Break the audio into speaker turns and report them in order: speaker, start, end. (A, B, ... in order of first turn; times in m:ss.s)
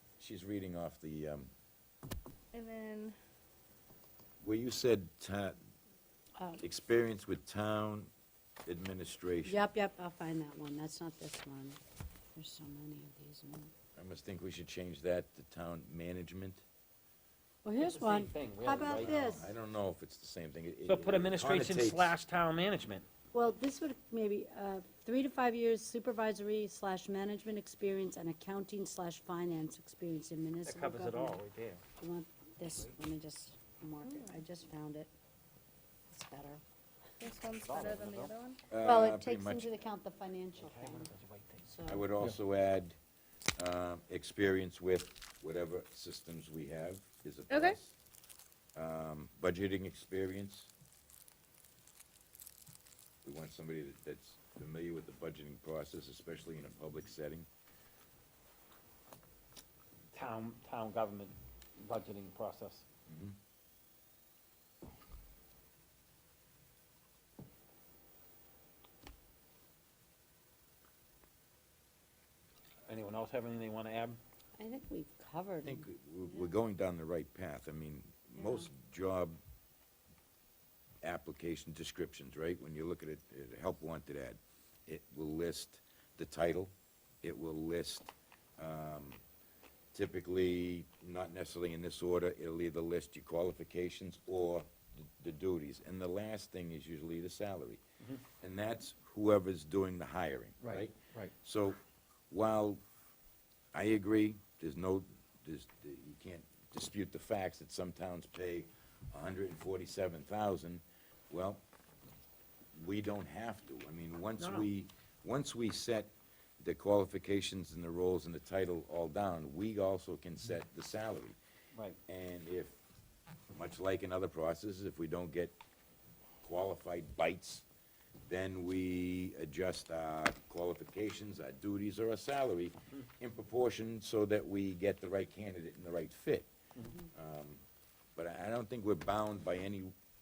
0:00.2-0:01.5 A
0:02.5-0:03.2 B
0:04.4-0:05.6 A
0:06.4-0:06.6 C
0:06.6-0:08.1 A
0:08.6-0:09.6 A
0:09.4-0:11.8 C
0:12.3-0:13.7 C
0:14.0-0:16.6 A
0:17.6-0:19.5 C
0:17.8-0:19.3 D
0:18.8-0:22.1 A
0:20.8-0:23.1 D
0:23.3-0:31.4 C
0:30.6-0:31.8 D
0:32.0-0:35.1 C
0:34.0-0:34.4 B
0:36.1-0:36.6 C
0:37.2-0:38.6 B
0:37.5-0:38.3 D
0:38.7-0:39.7 A
0:38.8-0:41.1 C
0:40.6-0:41.7 D
0:41.6-0:42.1 C
0:41.9-0:43.0 A
0:43.6-0:47.9 A
0:47.5-0:47.7 B
0:48.7-0:50.7 A
0:53.2-0:57.5 A
1:00.1-1:02.8 D
1:03.1-1:03.4 A
1:12.9-1:14.2 D
1:14.6-1:16.5 C
1:15.6-1:19.4 A
1:18.4-1:18.7 C
1:21.0-1:29.2 A
1:29.9-1:37.8 A
1:38.4-1:41.8 A
1:40.6-1:41.3 D
1:42.3-1:42.8 A
1:43.7-1:51.6 A
1:52.7-2:01.4 A
1:54.4-1:54.7 D
2:02.1-2:02.8 A
2:03.5-2:05.6 A
2:06.4-2:07.6 A
2:08.2-2:16.5 A
2:17.1-2:17.6 A
2:18.2-2:19.9 A